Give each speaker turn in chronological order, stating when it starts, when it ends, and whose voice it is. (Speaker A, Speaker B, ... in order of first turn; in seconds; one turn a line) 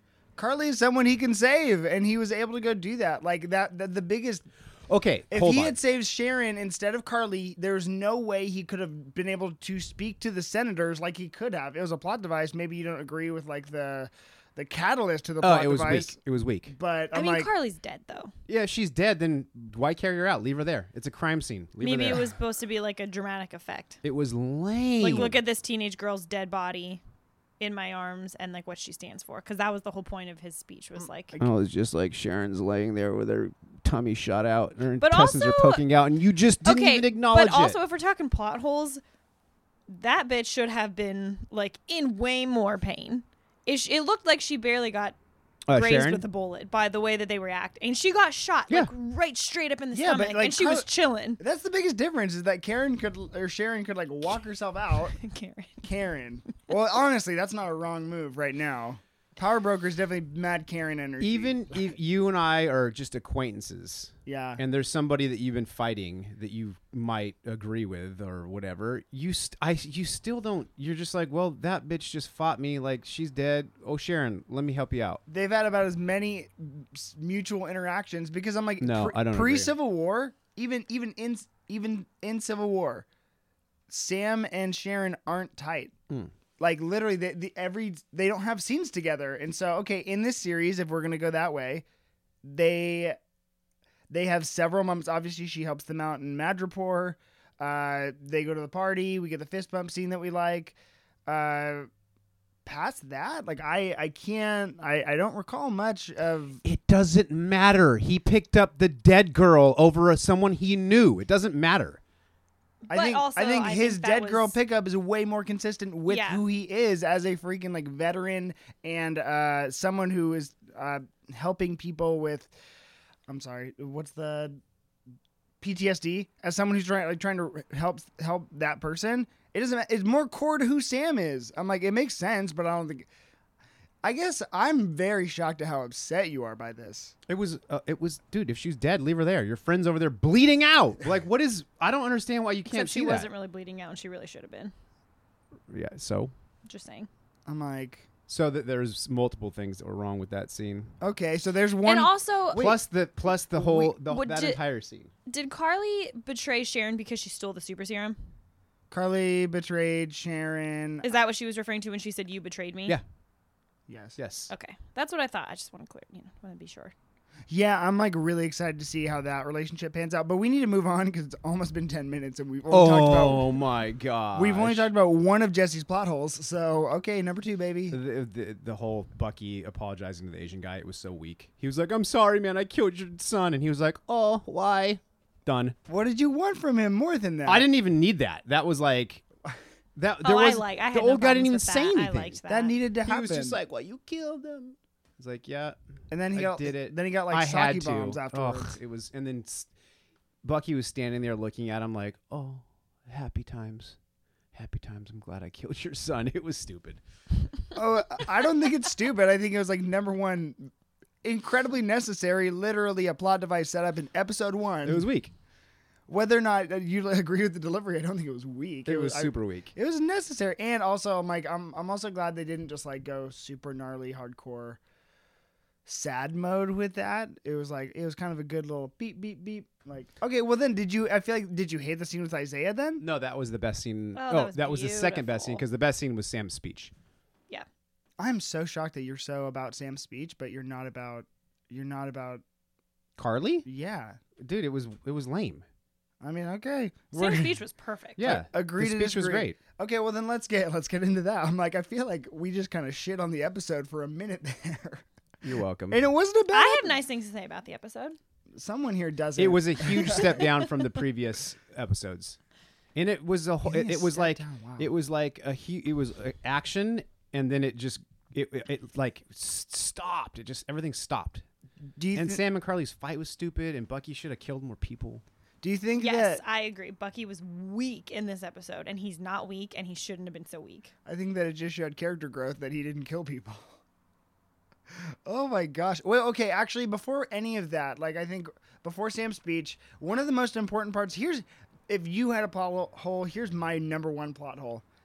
Speaker A: 0.4-4.5
Speaker B: 4.9-5.8
Speaker A: 5.3-16.2
Speaker B: 15.4-16.7
Speaker A: 16.7-17.5
Speaker C: 17.1-18.3
Speaker B: 18.5-22.3
Speaker C: 21.8-24.0
Speaker B: 24.0-25.4
Speaker C: 25.0-27.0
Speaker C: 27.6-31.3
Speaker B: 31.4-37.8
Speaker C: 35.0-35.8
Speaker C: 36.6-39.0
Speaker C: 39.9-45.2
Speaker B: 45.7-46.2
Speaker C: 45.7-51.4
Speaker A: 49.9-50.9
Speaker A: 51.4-55.2
Speaker C: 55.2-55.8
Speaker A: 55.8-61.8
Speaker B: 61.2-75.2
Speaker A: 64.3-64.6
Speaker A: 75.3-83.1
Speaker B: 78.8-79.7
Speaker A: 83.9-85.9
Speaker A: 86.6-91.8
Speaker A: 92.4-93.2
Speaker A: 94.1-101.9
Speaker A: 102.7-106.6
Speaker B: 106.6-112.0
Speaker C: 112.9-114.6
Speaker A: 112.9-122.5
Speaker C: 116.1-116.4
Speaker A: 123.3-124.6
Speaker A: 125.6-133.1
Speaker A: 134.0-137.2
Speaker B: 137.3-143.3
Speaker C: 142.7-144.7
Speaker B: 145.7-146.3
Speaker C: 146.7-147.1
Speaker A: 147.5-148.1
Speaker B: 148.3-150.9
Speaker A: 151.0-152.1
Speaker C: 151.8-152.8
Speaker B: 152.5-155.1
Speaker C: 153.7-154.6
Speaker C: 155.3-158.2
Speaker A: 158.9-161.1
Speaker C: 161.0-163.0
Speaker A: 163.9-164.2
Speaker B: 164.2-164.5
Speaker C: 164.5-166.9
Speaker A: 167.5-173.6
Speaker B: 172.7-174.9
Speaker A: 174.3-178.0
Speaker B: 177.9-185.8
Speaker A: 185.9-187.7
Speaker B: 187.5-189.2
Speaker B: 190.0-192.4
Speaker C: 190.2-192.8
Speaker A: 192.5-193.6
Speaker B: 193.1-195.8
Speaker A: 196.1-198.8
Speaker B: 196.3-199.7
Speaker B: 200.4-204.0
Speaker B: 204.5-207.0
Speaker A: 207.8-210.7
Speaker A: 211.2-215.1
Speaker B: 214.8-215.3
Speaker A: 216.1-224.8
Speaker B: 218.9-219.7
Speaker A: 225.9-233.1
Speaker B: 233.0-236.9
Speaker C: 234.2-235.7
Speaker A: 238.2-242.4
Speaker B: 243.2-243.7
Speaker A: 243.7-244.2
Speaker B: 244.4-245.6
Speaker A: 246.2-247.6
Speaker C: 247.2-248.3
Speaker B: 248.2-249.6
Speaker A: 248.2-255.0
Speaker B: 255.4-256.0
Speaker A: 255.9-257.0
Speaker C: 256.5-258.2
Speaker A: 258.6-260.5
Speaker B: 259.4-262.4
Speaker B: 262.9-271.4
Speaker A: 263.6-264.9
Speaker A: 272.0-272.4
Speaker B: 272.1-275.2
Speaker A: 275.6-276.4
Speaker C: 276.0-280.9
Speaker A: 281.1-283.8
Speaker A: 284.9-294.9